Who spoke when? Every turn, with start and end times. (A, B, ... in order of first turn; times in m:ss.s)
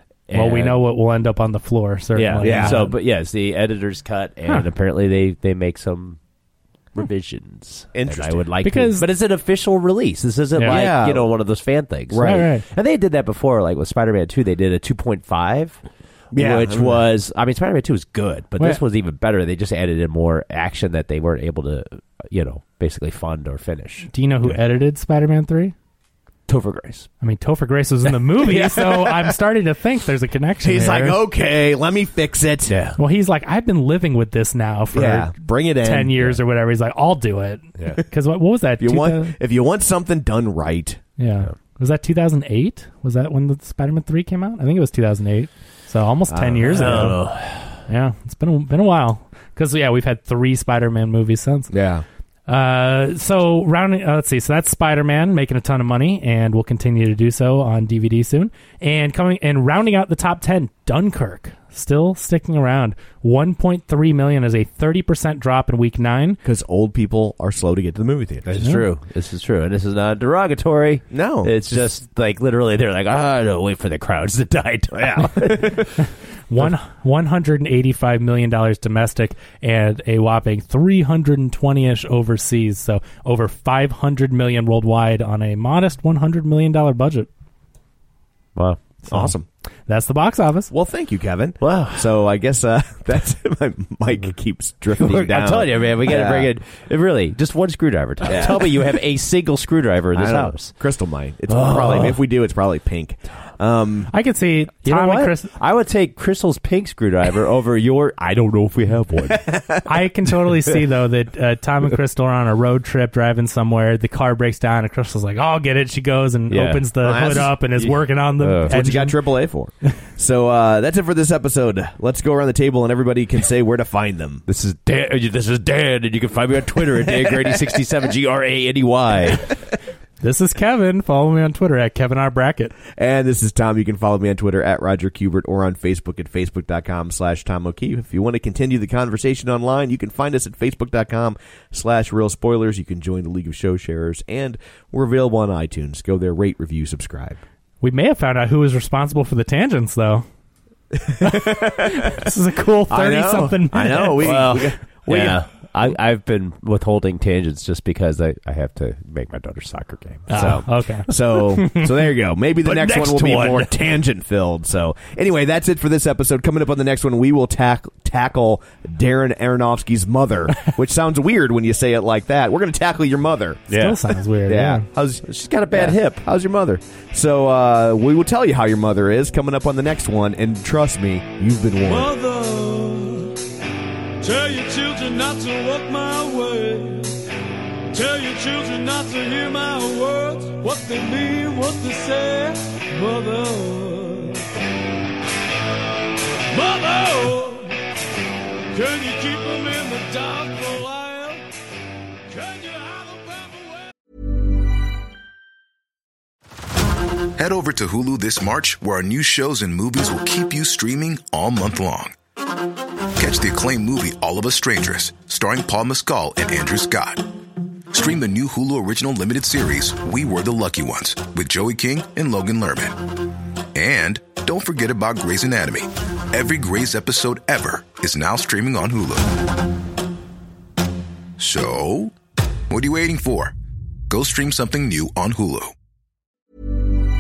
0:00.3-0:00.8 A
0:00.3-0:02.9 B
0:02.1-0:06.2 A
0:02.4-0:02.8 C
0:06.9-0:15.8 A
0:07.9-0:08.4 C
0:08.6-0:09.1 B
0:10.5-0:10.9 B
0:10.6-0:11.3 C
0:12.1-0:12.4 C
0:12.2-0:12.6 B
0:16.3-0:17.0 C
0:16.3-0:24.6 A
0:24.1-0:25.7 B
0:26.5-0:27.1 A
0:27.2-0:31.2 B
0:28.4-0:29.4 C
0:30.6-0:32.8 C
0:32.7-0:33.0 A
0:33.0-0:39.3 B
0:34.9-0:36.3 C
0:38.8-0:41.0 C
0:41.2-0:47.2 B
0:46.3-0:47.1 C
0:46.7-0:47.8 A
0:47.9-0:51.7 B
0:51.7-0:52.0 C
0:52.5-1:06.4 B
1:06.4-1:08.5 C
1:08.4-1:15.9 A
1:08.6-1:08.8 B
1:11.1-1:11.7 C
1:14.9-1:15.9 C
1:15.7-1:27.3 B
1:29.0-1:29.5 C
1:29.9-1:30.7 B
1:30.7-1:36.5 C
1:31.6-1:32.1 A
1:35.0-1:40.7 A
1:38.2-1:38.8 C
1:40.1-1:44.1 C
1:41.5-1:42.2 A
1:44.1-1:45.5 B
1:44.8-1:49.6 A
1:49.4-1:49.8 C
1:49.8-1:59.2 B
1:56.5-1:57.9 A
1:57.0-1:57.9 C
1:58.4-1:58.7 A
1:58.6-2:04.4 C
2:04.4-2:09.5 A
2:10.2-2:12.8 B
2:12.9-2:27.4 C
2:27.8-2:30.2 B
2:30.9-2:32.1 C
2:31.2-2:34.3 B
2:32.9-2:35.4 C
2:33.9-2:40.6 A
2:40.3-2:41.9 B
2:40.3-2:53.7 C
2:42.6-2:43.9 A
2:53.7-2:54.0 A
2:53.7-2:54.8 B
2:54.4-3:02.1 C
2:55.2-2:56.2 A
3:01.8-3:03.4 D
3:04.2-3:07.2 D
3:07.9-3:14.4 D
3:16.5-3:17.8 D
3:18.7-3:21.4 D
3:22.3-3:23.9 D
3:27.4-3:32.1 E
3:33.2-3:37.2 E
3:37.9-3:43.0 E
3:43.7-3:49.3 E
3:51.4-3:52.1 E
3:52.7-3:53.5 E
3:54.1-3:55.7 E